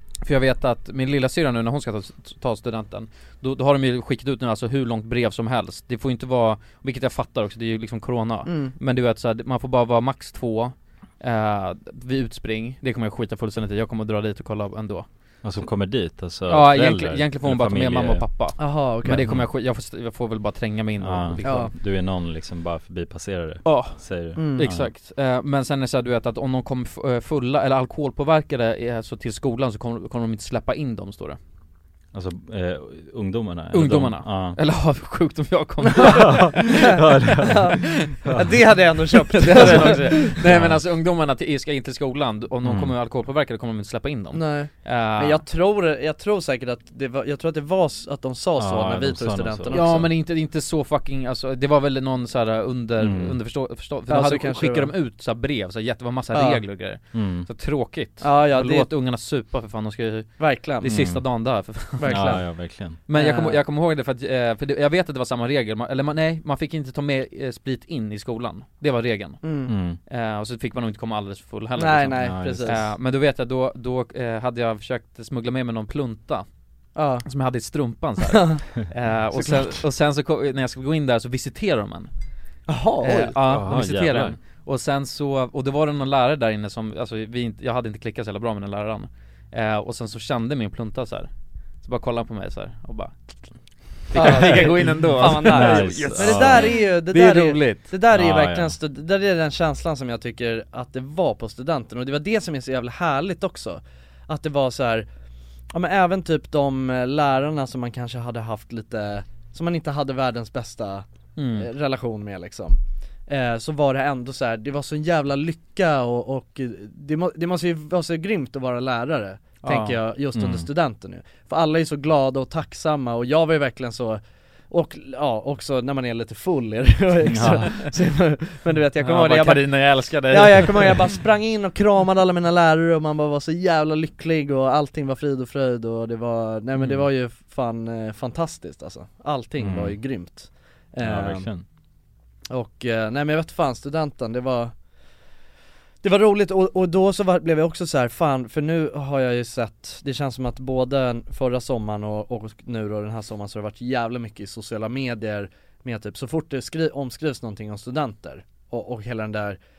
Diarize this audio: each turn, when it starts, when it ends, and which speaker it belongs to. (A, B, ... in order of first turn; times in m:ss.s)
0:00.2-0:15.0 A
0:08.4-0:08.7 B
0:15.4-0:18.2 C
0:16.5-0:21.7 A
0:18.6-0:19.2 B
0:19.1-0:19.4 C
0:21.0-0:24.9 C
0:21.4-0:21.7 B
0:23.6-0:31.4 A
0:24.4-0:24.7 B
0:32.1-0:34.6 C
0:33.7-0:38.1 A
0:35.8-0:40.4 B
0:36.0-0:38.5 C
0:39.1-0:45.4 A
0:40.4-0:40.8 C
0:42.6-0:42.9 C
0:44.3-0:50.1 B
0:48.6-0:50.1 C
0:49.7-1:02.5 A
0:53.0-0:53.4 C
0:54.1-0:54.9 B
0:56.3-0:56.6 B
0:57.1-0:57.5 C
0:58.2-0:58.9 B
1:00.4-1:00.9 B
1:00.9-1:01.2 C
1:02.0-1:03.6 B
1:02.0-1:03.0 C
1:03.1-1:16.4 A
1:09.4-1:09.7 B
1:09.7-1:10.0 C
1:11.8-1:12.9 B
1:12.1-1:12.9 C
1:17.0-1:17.2 B
1:17.2-1:22.1 A
1:18.3-1:18.6 B
1:19.3-1:19.8 B
1:22.7-1:23.4 B
1:23.0-1:31.3 A
1:23.4-1:24.4 C
1:31.8-1:33.1 A
1:34.1-1:37.9 A
1:34.1-1:45.1 B
1:35.2-1:36.6 C
1:38.1-1:38.7 C
1:45.7-1:51.0 B
1:51.4-1:51.7 A
1:51.6-2:04.2 B
1:59.6-2:00.0 A
2:00.3-2:00.7 C
2:04.7-2:21.5 B
2:07.3-2:07.7 C
2:07.5-2:07.9 A
2:09.0-2:11.1 A
2:19.6-2:20.0 C
2:21.0-2:21.6 C
2:22.5-2:24.7 B
2:26.0-2:39.6 B